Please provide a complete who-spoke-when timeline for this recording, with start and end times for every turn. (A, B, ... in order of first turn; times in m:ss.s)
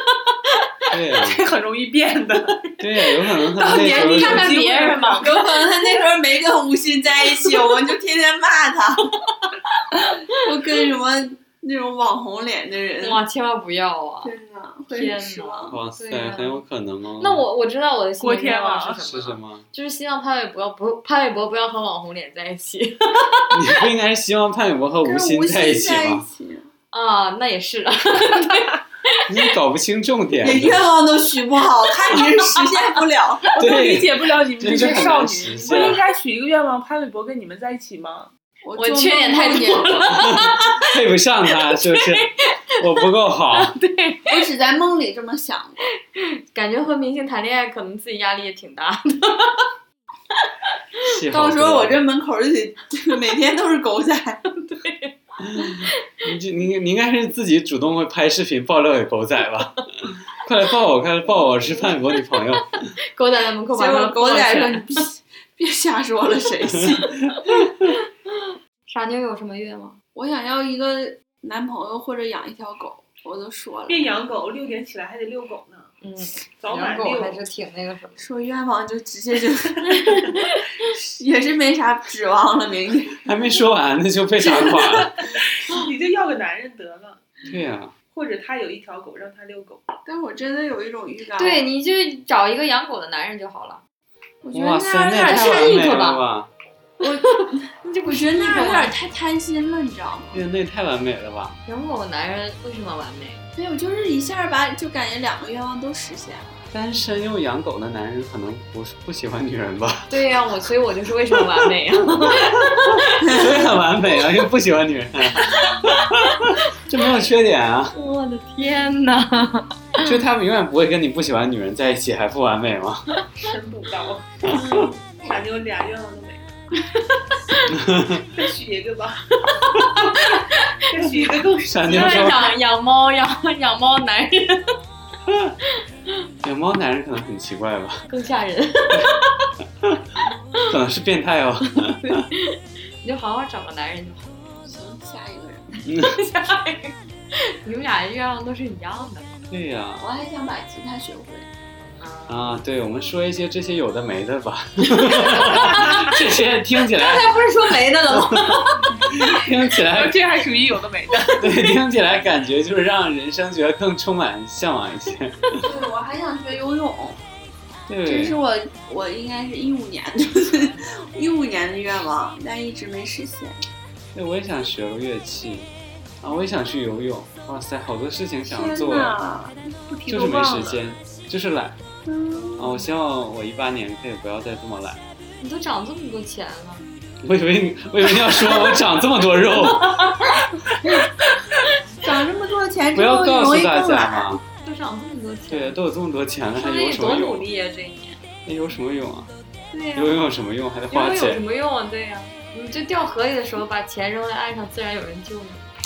0:00.9-0:01.4 A
0:01.2-0:02.6 B
0:02.8-0:04.6 A
0:03.6-0:05.5 B
0:03.6-0:05.4 C
0:05.2-0:09.1 D
0:10.3-0:13.2 D
0:13.0-0:14.3 C
0:14.2-0:15.8 D
0:14.9-0:16.6 C
0:15.7-0:17.4 A
0:17.2-0:23.5 C
0:18.2-0:19.0 B
0:19.0-0:19.6 A
0:23.5-0:26.2 A
0:25.0-0:26.7 D
0:26.9-0:29.3 C
0:29.3-0:30.9 A
0:30.4-0:33.5 D
0:33.6-0:38.3 B
0:33.6-0:36.0 A
0:38.6-0:40.3 D
0:38.8-0:40.8 C
0:40.1-0:43.7 A
0:41.8-0:42.5 C
0:43.5-0:44.4 C
0:44.3-0:45.8 D
0:46.1-0:49.6 C
0:51.0-0:52.0 A
0:51.2-0:54.4 D
0:54.6-0:55.9 C
0:55.4-1:02.9 A
1:01.3-1:01.9 C
1:03.1-1:04.9 C
1:03.7-1:07.1 D
1:08.9-1:10.0 C
1:10.1-1:14.1 D
1:13.9-1:15.9 B
1:16.0-1:18.2 C
1:16.6-1:17.4 B
1:18.2-1:23.2 D
1:20.0-1:20.9 C
1:23.2-1:25.2 A
1:24.6-1:24.9 D
1:25.6-1:27.2 B
1:27.5-1:27.9 A
1:28.1-1:29.8 B
1:30.0-1:31.6 D
1:31.4-1:33.8 C
1:34.4-1:35.9 D
1:34.5-1:36.5 A
1:35.2-1:36.2 C
1:37.0-1:38.9 C
1:37.1-1:37.4 D
1:38.0-1:40.4 D
1:40.3-1:41.6 A
1:41.6-1:43.4 C
1:43.5-1:46.6 D
1:46.7-1:50.1 A
1:50.1-1:53.1 C
1:53.2-1:53.6 D
1:53.3-1:57.9 A
1:57.9-2:00.1 C
2:00.0-2:03.0 A
2:03.3-2:04.6 B
2:04.5-2:04.8 A
2:04.5-2:05.0 C
2:05.2-2:06.5 B
2:07.7-2:08.2 A
2:08.3-2:09.2 B
2:09.4-2:10.8 C
2:10.9-2:12.4 B
2:11.6-2:12.5 A
2:11.8-2:14.6 C
2:15.3-2:15.5 A
2:16.4-2:18.0 A
2:18.1-2:19.4 C
2:20.7-2:22.2 A
2:22.0-2:24.5 C
2:24.6-2:25.8 D
2:25.9-2:29.4 C
2:29.5-2:30.1 A
2:30.0-2:31.5 D
2:32.0-2:32.6 C
2:32.3-2:40.2 A
2:35.0-2:36.2 C
2:36.9-2:39.0 C
2:39.7-2:41.7 B
2:41.4-2:45.6 A
2:45.6-2:47.2 D
2:47.9-2:48.4 A
2:48.0-2:53.6 D
2:54.1-2:55.7 A
2:56.2-2:59.2 A
2:58.4-2:59.6 D
2:59.9-3:00.9 B
3:00.1-3:01.8 A
3:02.0-3:02.9 D
3:02.6-3:05.0 A
3:05.4-3:06.8 C
3:07.2-3:10.2 A
3:09.7-3:10.9 C
3:12.0-3:14.3 D
3:12.9-3:14.4 A
3:14.6-3:15.8 C
3:15.5-3:17.4 A
3:16.6-3:18.2 C
3:18.4-3:19.3 A
3:19.7-3:20.1 C
3:19.9-3:21.4 A
3:20.9-3:25.7 C